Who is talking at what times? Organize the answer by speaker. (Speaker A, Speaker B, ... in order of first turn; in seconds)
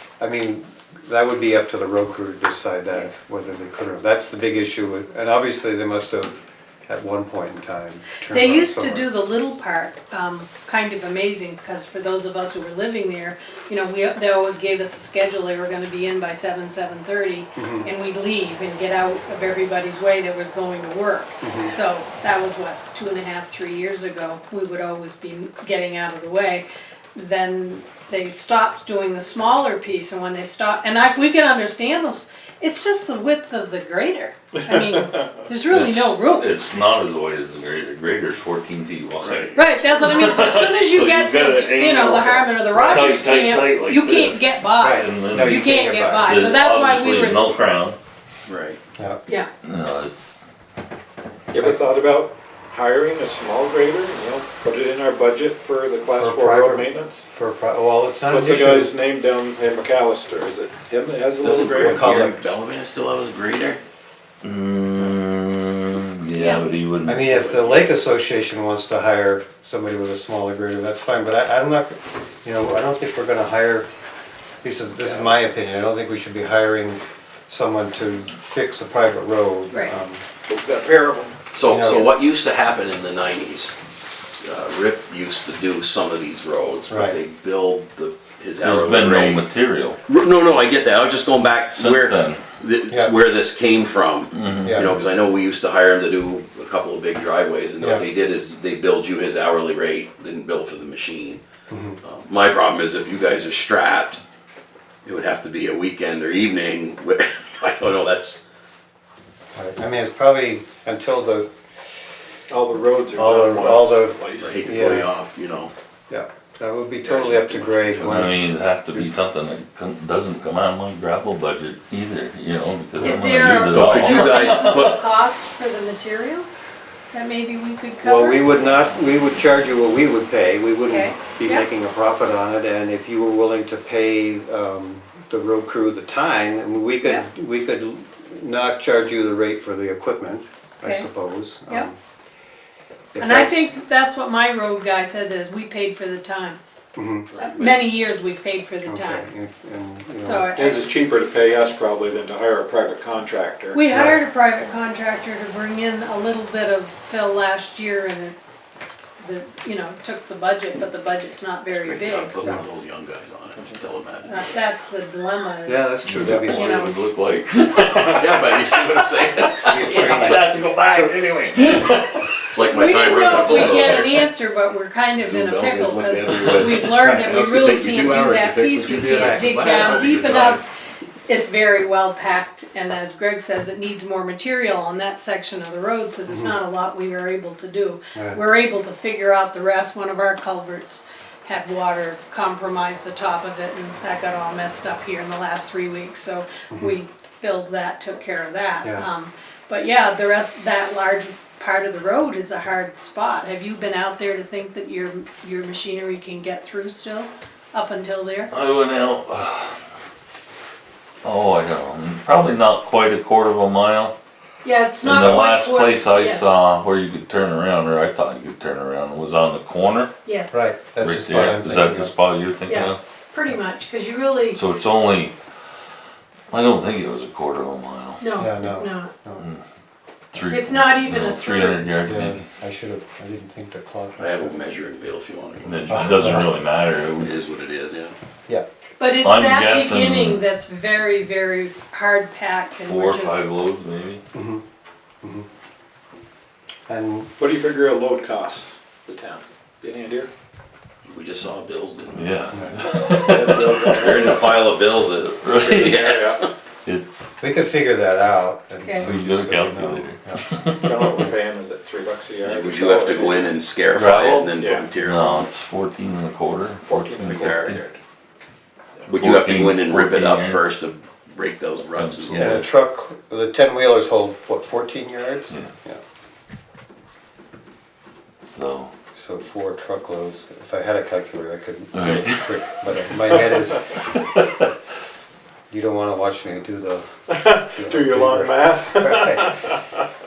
Speaker A: 0.2-9.1, 17.6-17.9, 21.4-21.8, 42.8-43.2, 44.8-46.5, 49.0-49.2, 56.0-58.9, 61.8-62.5, 67.0-73.9, 74.6-80.2, 81.7-82.1, 86.9-87.2, 94.6-95.0, 101.7-102.0, 109.5-111.5, 113.2-115.1, 116.1-118.4, 128.0-142.0, 143.1-143.7, 147.0-147.3, 148.8-150.6, 153.9-154.2, 165.7-166.7, 169.7-171.2, 186.3-186.6, 188.2-188.4, 220.5-222.1, 228.3-229.4, 232.0-234.6, 235.9-236.5, 244.3-244.6, 246.9-247.3, 257.4-260.4, 272.4-276.0, 279.2-284.0, 285.7-287.1, 287.6-289.6
Speaker B: 8.3-36.5, 39.5-47.5, 66.4-66.7, 123.0-126.5, 127.1-128.5, 130.9-131.7, 140.8-141.1, 143.2-146.6, 147.4-149.3, 150.2-150.9, 153.7-158.4, 159.2-162.7, 164.2-167.0, 172.7-180.6, 181.3-208.5, 214.6-216.5, 220.2-220.6, 222.7-224.6, 228.2-229.1, 230.4-231.9, 239.0-243.5, 258.8-259.1
Speaker C: 35.7-45.7, 46.2-48.0, 49.6-50.4, 64.4-67.6, 88.6-90.0, 91.7-92.4, 94.3-94.8, 118.0-124.9, 166.1-172.4, 173.5-173.8, 175.2-177.4, 179.1-180.5, 208.5-209.8, 211.2-214.1, 215.0-220.1, 221.0-223.0, 224.5-225.3, 226.5-228.3, 230.3-232.4, 235.6-237.3, 239.2-240.5, 242.8-244.2, 252.1-256.1, 256.9-257.3, 259.0-260.9, 263.9-267.8, 269.2-270.6, 272.0-272.7, 278.5-278.9, 281.9-283.4, 284.1-284.6
Speaker D: 39.2-39.5, 48.5-48.8, 61.4-63.8, 81.5-83.8, 84.4-89.4, 90.1-101.4, 102.0-104.2, 105.0-108.4, 114.4-115.7, 117.0-118.3, 123.7-125.0, 147.3-147.8, 161.8-164.5, 167.9-170.4, 172.5-174.2, 177.1-180.6, 234.2-236.1, 237.2-238.1, 251.1-252.3, 253.9-256.5, 262.4-265.4, 267.2-267.8, 269.1-272.6
Speaker E: 51.5-57.2, 58.3-62.3, 75.1-75.4, 80.5-81.4, 112.5-114.7, 150.6-153.8, 247.4-250.3, 253.2-254.6, 255.8-256.4, 260.8-263.6, 264.5-264.9, 266.8-268.0, 287.3-290.0